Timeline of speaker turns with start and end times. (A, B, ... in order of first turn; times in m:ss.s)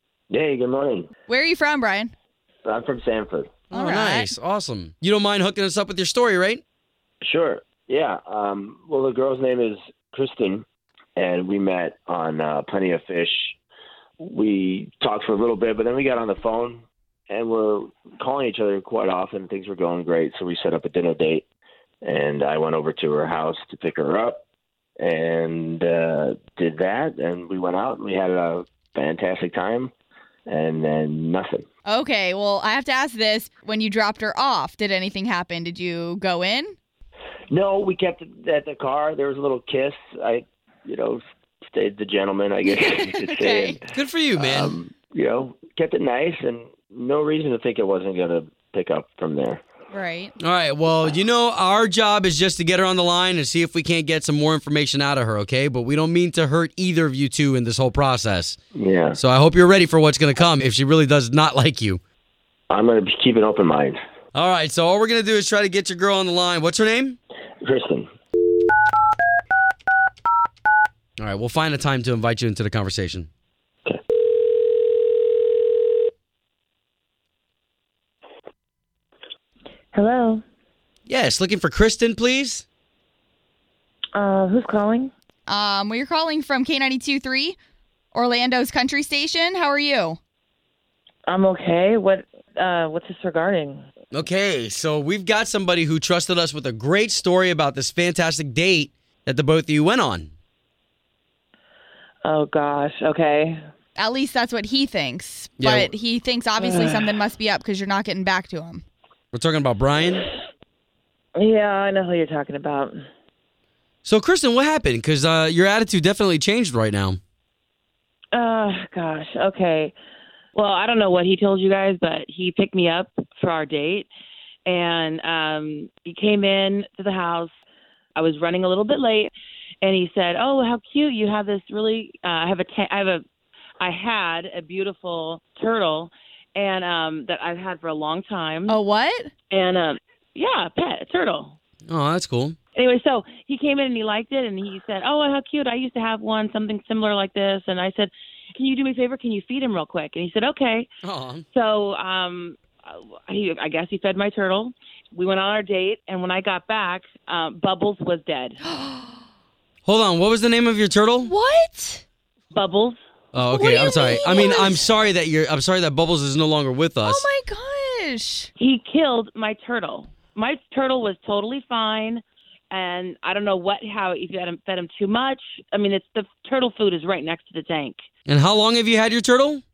0:00.3-0:01.1 A
0:01.3-0:02.1 B
0:02.6-0:03.5 A
0:03.7-0:06.6 C
0:03.7-0:04.3 B
0:07.2-0:10.6 A
0:11.2-0:13.6 A
0:14.2-0:21.4 A
0:22.0-0:24.4 A
0:25.0-0:29.9 A
0:30.5-0:31.6 A
0:31.8-0:36.8 B
0:37.5-0:43.8 A
0:42.6-0:43.8 B
0:43.9-0:44.7 C
0:44.3-0:49.6 A
0:49.9-0:50.4 B
0:50.4-0:58.6 C
0:58.7-0:59.2 A
0:59.1-1:02.0 C
1:02.7-1:04.0 A
1:04.3-1:07.2 C
1:07.6-1:08.1 A
1:11.2-1:13.3 C
1:19.9-1:20.4 D
1:21.1-1:22.6 C
1:24.1-1:25.1 D
1:25.5-1:27.6 B
1:28.1-1:30.2 B
1:31.2-1:33.8 D
1:34.1-1:40.3 C
1:42.2-1:43.6 D
1:44.0-1:48.8 B
1:45.6-1:45.9 C
1:46.6-1:47.1 D
1:49.3-1:50.3 C
1:51.4-1:53.0 D
1:54.0-1:57.2 C
1:58.3-1:59.9 D
2:00.5-2:04.1 D
2:04.6-2:07.5 D
2:08.2-2:13.2 D
2:13.8-2:18.8 D
2:18.7-2:19.3 B
2:19.5-2:21.6 D
2:21.9-2:22.6 C
2:22.7-2:30.9 D
2:31.0-2:31.4 C
2:31.5-2:38.6 D
2:38.6-2:39.2 B
2:39.8-2:41.3 C
2:41.2-2:42.0 B
2:42.5-2:43.0 D
2:43.3-2:47.3 C
2:43.4-2:44.8 B
2:43.8-2:44.7 D
2:47.0-2:48.5 B
2:48.6-2:58.0 D
2:58.3-2:59.6 C